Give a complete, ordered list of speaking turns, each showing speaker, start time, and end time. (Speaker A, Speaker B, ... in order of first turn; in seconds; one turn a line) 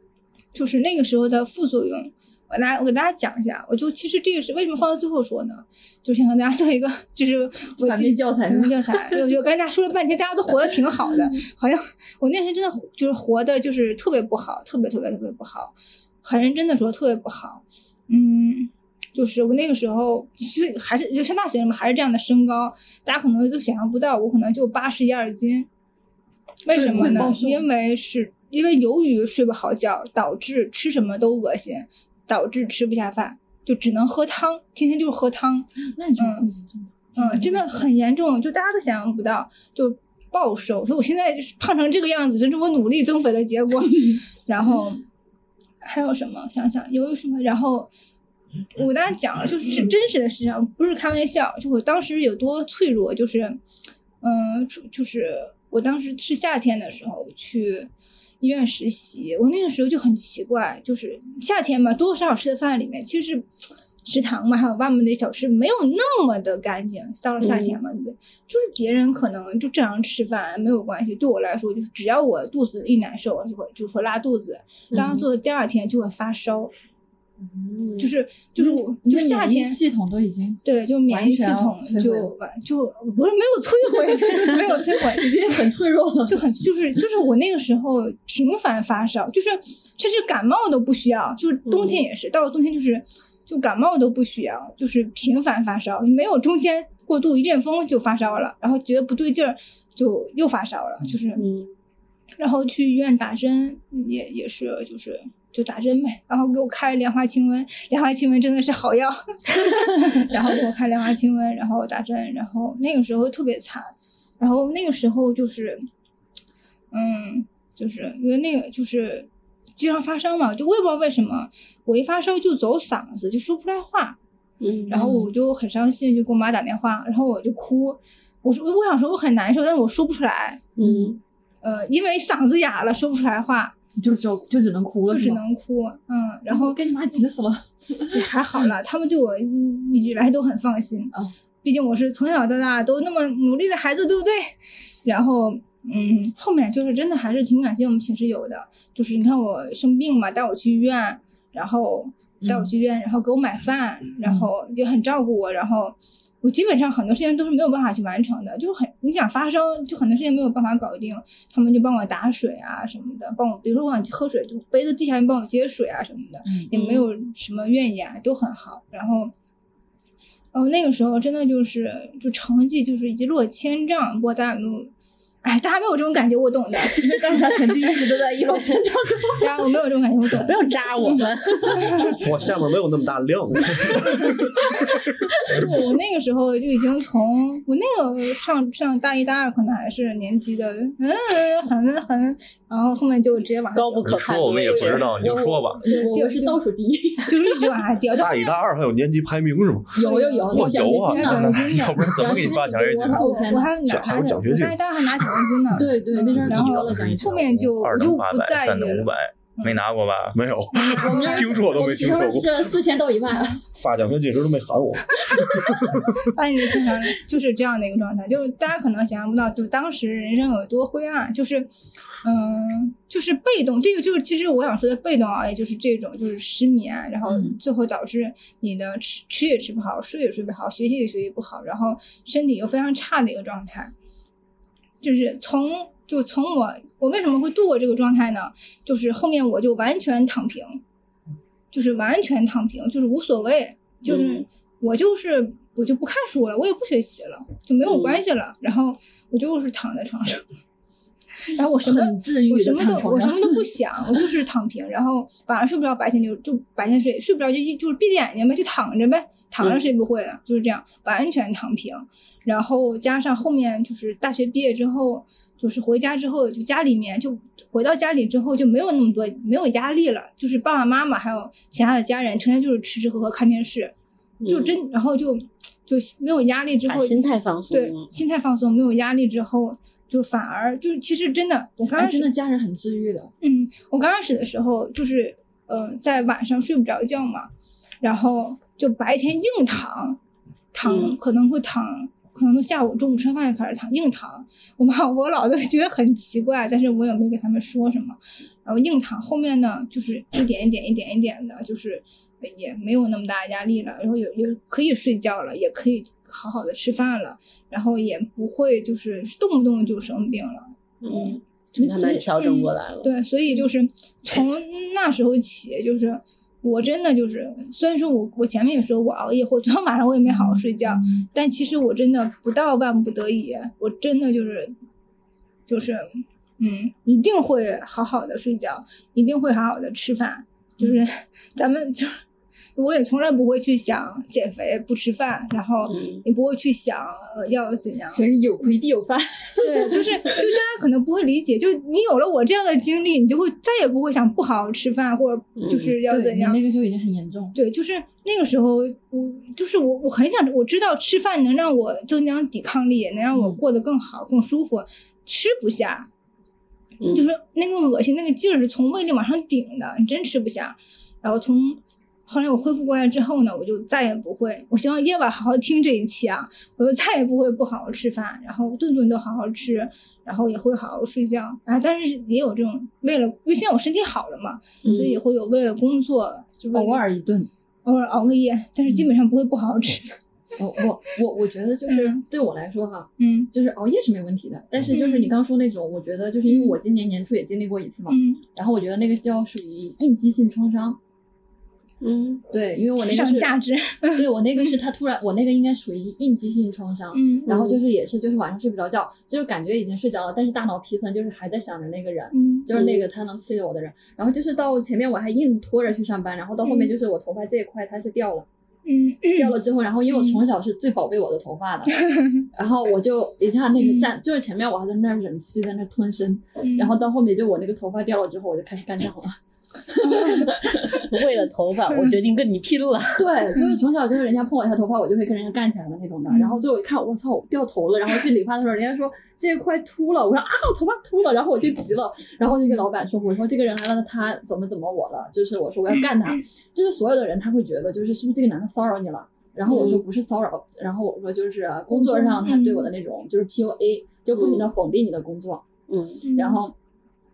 Speaker A: 0.5-25.7
Speaker B: 7.8-9.2
Speaker A: 26.6-36.5
Speaker B: 26.7-27.7
Speaker B: 35.9-37.8
Speaker A: 37.2-45.0
Speaker A: 45.8-47.9
Speaker A: 48.8-53.6
Speaker A: 54.2-63.5
Speaker A: 64.0-76.7
Speaker C: 67.4-67.8
Speaker C: 74.9-75.2
Speaker B: 75.0-75.2
Speaker C: 77.4-78.1
Speaker A: 78.0-79.8
Speaker B: 78.6-82.3
Speaker A: 80.7-85.7
Speaker B: 84.1-86.5
Speaker A: 86.3-101.5
Speaker C: 91.7-92.0
Speaker C: 101.4-101.7
Speaker A: 102.4-115.8
Speaker A: 116.9-124.2
Speaker C: 124.6-125.1
Speaker A: 124.9-130.7
Speaker B: 125.0-125.3
Speaker C: 130.8-131.2
Speaker B: 130.8-131.2
Speaker A: 131.6-133.8
Speaker B: 134.0-135.4
Speaker A: 135.1-136.8
Speaker B: 136.5-138.7
Speaker A: 138.1-169.3
Speaker B: 152.4-152.7
Speaker B: 154.2-154.5
Speaker B: 166.4-166.9
Speaker C: 166.7-167.0
Speaker A: 170.5-174.9
Speaker A: 175.4-177.9
Speaker B: 176.9-179.7
Speaker A: 179.3-182.2
Speaker C: 180.4-182.0
Speaker D: 182.2-184.3
Speaker A: 185.5-194.2
Speaker C: 193.7-195.2
Speaker E: 194.0-195.9
Speaker B: 194.7-197.7
Speaker A: 195.9-196.6
Speaker A: 197.3-198.6
Speaker D: 198.1-200.0
Speaker B: 199.9-203.7
Speaker A: 200.0-209.8
Speaker E: 200.5-203.5
Speaker D: 203.8-205.8
Speaker B: 205.8-207.5
Speaker E: 206.3-210.4
Speaker D: 210.3-212.8
Speaker A: 210.7-211.7
Speaker B: 210.9-213.6
Speaker D: 213.7-216.2
Speaker A: 216.2-221.7
Speaker A: 222.2-233.9
Speaker B: 227.3-227.6
Speaker A: 235.0-240.8
Speaker A: 241.7-250.4
Speaker C: 244.1-244.4
Speaker C: 247.9-248.2
Speaker A: 251.5-273.9
Speaker B: 251.8-253.7
Speaker C: 274.4-274.8
Speaker A: 274.5-282.3
Speaker C: 276.9-278.1
Speaker B: 281.9-283.3
Speaker A: 283.4-287.5
Speaker A: 288.0-290.2
Speaker A: 290.7-311.4
Speaker C: 290.9-291.2
Speaker C: 311.0-313.1
Speaker B: 311.8-312.3
Speaker A: 312.4-324.7
Speaker B: 320.3-321.3
Speaker A: 325.7-332.2
Speaker A: 332.8-338.2
Speaker C: 335.9-336.2
Speaker B: 338.1-340.5
Speaker A: 339.6-346.6
Speaker C: 345.6-346.0
Speaker B: 346.1-347.6
Speaker A: 347.5-356.1
Speaker C: 357.0-357.3
Speaker A: 357.1-377.1
Speaker C: 374.8-375.2
Speaker B: 376.7-377.5
Speaker A: 377.9-380.2
Speaker B: 380.6-391.0
Speaker A: 381.9-382.2
Speaker A: 383.2-383.5
Speaker A: 384.9-385.4
Speaker A: 386.5-386.8
Speaker A: 388.1-388.4
Speaker C: 392.0-392.4
Speaker B: 392.5-393.5
Speaker A: 393.1-394.7
Speaker B: 394.1-408.5
Speaker A: 397.1-397.5
Speaker C: 397.5-397.8
Speaker A: 402.3-402.7
Speaker C: 402.7-403.1
Speaker A: 406.6-406.9
Speaker A: 408.9-409.6
Speaker B: 409.4-421.1
Speaker A: 410.1-410.4
Speaker A: 413.8-414.1
Speaker A: 416.6-416.9
Speaker A: 420.1-420.5
Speaker C: 421.0-423.3
Speaker B: 423.2-445.6
Speaker A: 426.3-426.6
Speaker A: 436.0-436.4
Speaker C: 439.7-440.0
Speaker A: 441.9-442.9
Speaker C: 444.4-444.7
Speaker C: 445.9-446.3
Speaker A: 446.2-446.6
Speaker B: 446.3-446.8